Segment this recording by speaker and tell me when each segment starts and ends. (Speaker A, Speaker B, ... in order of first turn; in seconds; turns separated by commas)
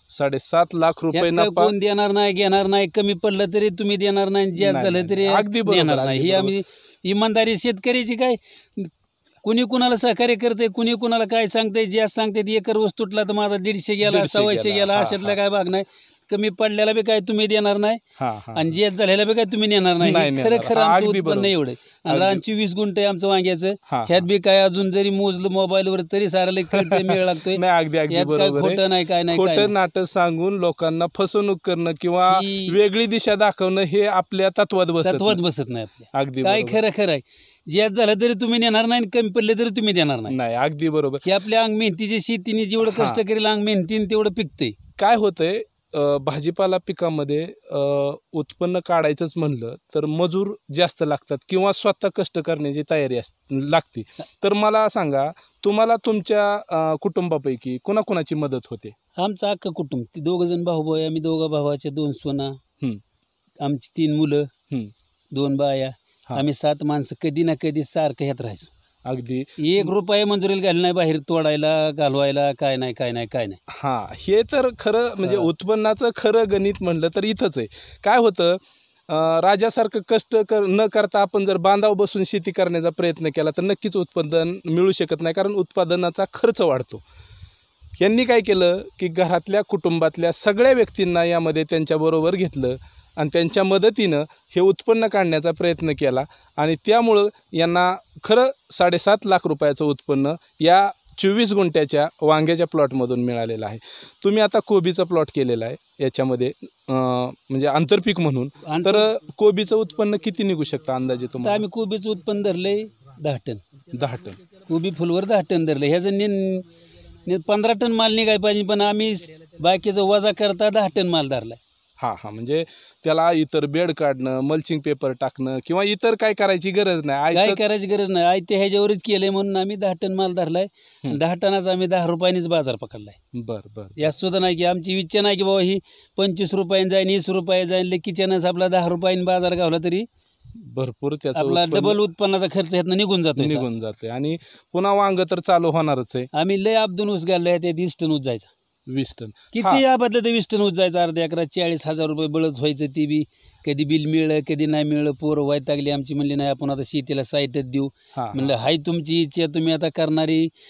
Speaker A: 0.1-1.7, Speaker B: 1.1-8.9, Speaker A: 4.6-6.5, Speaker B: 9.4-18.0, Speaker A: 14.0-15.4, Speaker A: 18.2-18.8, Speaker B: 18.6-29.7, Speaker A: 20.0-21.5, Speaker A: 22.1-22.4, Speaker A: 23.9-24.3, Speaker A: 26.7-35.4, Speaker B: 32.2-32.8, Speaker B: 35.0-40.4, Speaker A: 36.1-36.8, Speaker A: 40.3-41.3, Speaker B: 41.2-44.8, Speaker A: 42.8-43.2, Speaker A: 45.0-58.9, Speaker B: 59.2-62.6, Speaker B: 63.6-64.5, Speaker B: 65.3-68.7, Speaker A: 69.0-69.9, Speaker B: 69.6-73.6, Speaker A: 73.7-87.0, Speaker B: 75.2-75.5, Speaker A: 88.0-111.7, Speaker B: 108.6-109.1, Speaker B: 111.4-113.6, Speaker A: 113.9-114.4, Speaker B: 114.7-116.7, Speaker B: 117.2-121.6, Speaker A: 122.0-127.7, Speaker B: 127.3-133.2, Speaker A: 133.3-134.1, Speaker B: 134.0-140.1, Speaker A: 140.6-142.0, Speaker B: 141.3-143.7, Speaker A: 143.4-146.3, Speaker B: 146.3-148.5, Speaker A: 148.9-149.8, Speaker B: 149.5-160.5, Speaker A: 158.1-158.6